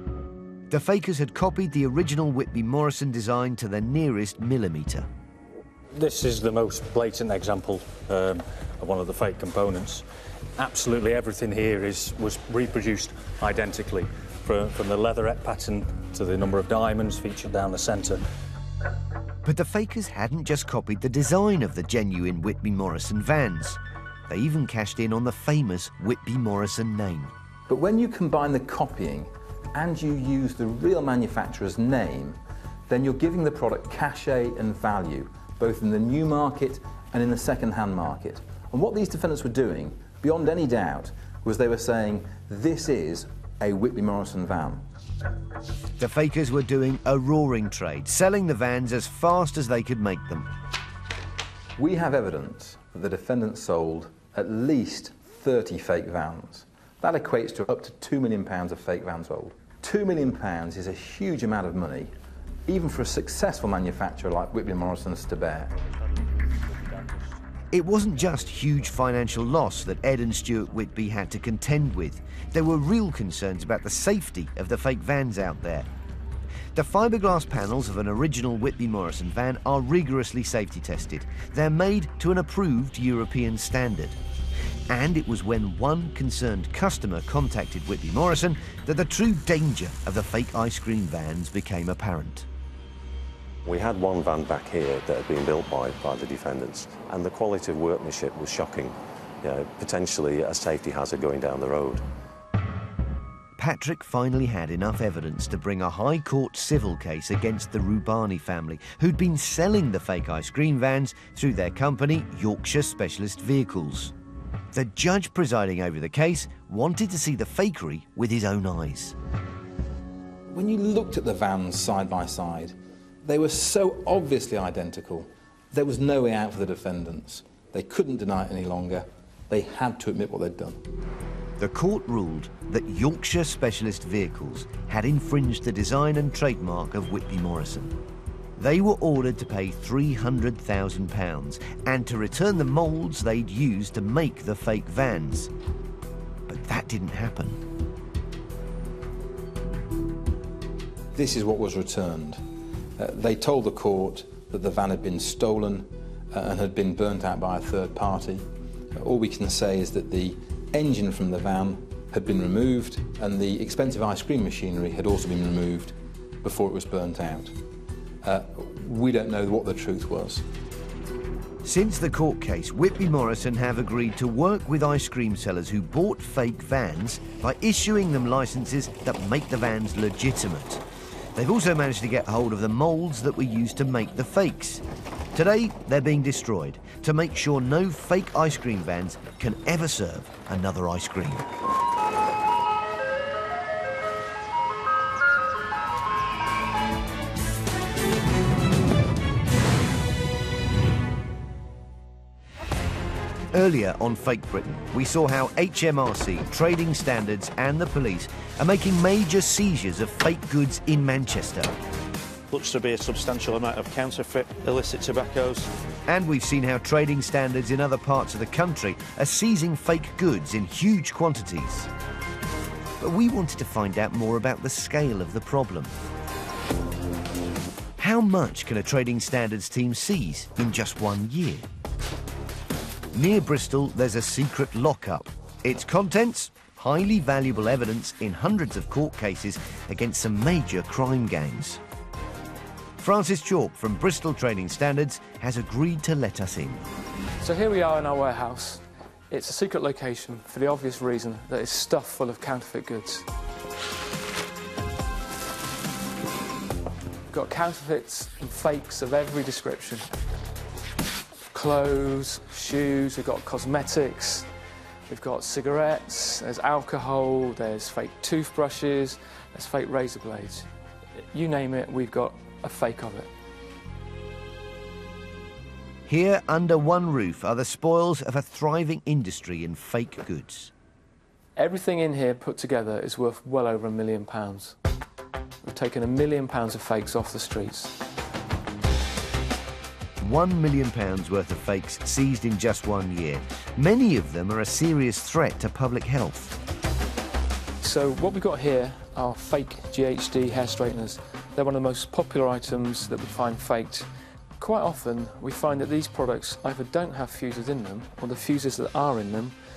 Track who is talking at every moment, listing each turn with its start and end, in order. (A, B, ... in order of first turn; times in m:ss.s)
0:00.7-0:05.1 A
0:05.9-0:10.0 B
0:10.6-0:18.2 B
0:19.4-0:27.3 A
0:27.7-0:44.8 C
0:46.0-0:50.5 A
0:51.8-1:02.1 C
1:02.7-1:05.7 C
1:06.8-1:07.2 B
1:07.7-1:15.9 A
1:16.7-1:24.2 A
1:24.9-1:32.4 A
1:33.6-1:42.0 D
1:43.6-1:54.1 A
1:54.7-1:59.1 A
2:00.5-2:10.8 C
2:11.6-2:18.0 A
2:18.6-2:25.5 A
2:26.5-2:27.6 A
2:31.1-2:32.4 C
2:33.0-2:47.5 C
2:48.2-2:50.4 C
2:51.6-3:00.8 A
3:01.3-3:11.4 A
3:23.5-3:31.7 A
3:32.5-3:35.7 E
3:36.1-3:41.9 A
3:43.0-3:45.9 A
3:48.0-3:51.6 A
3:53.1-4:01.8 A
4:03.0-4:06.8 A
4:07.4-4:13.2 F
4:17.3-4:20.1 F
4:21.5-4:24.5 F
4:25.1-4:30.7 F
4:31.3-4:33.3 F
4:36.1-4:40.7 A
4:41.6-4:44.7 F
4:45.6-4:47.9 F
4:50.2-4:56.5 A
4:57.8-5:04.1 F
5:04.6-5:09.5 F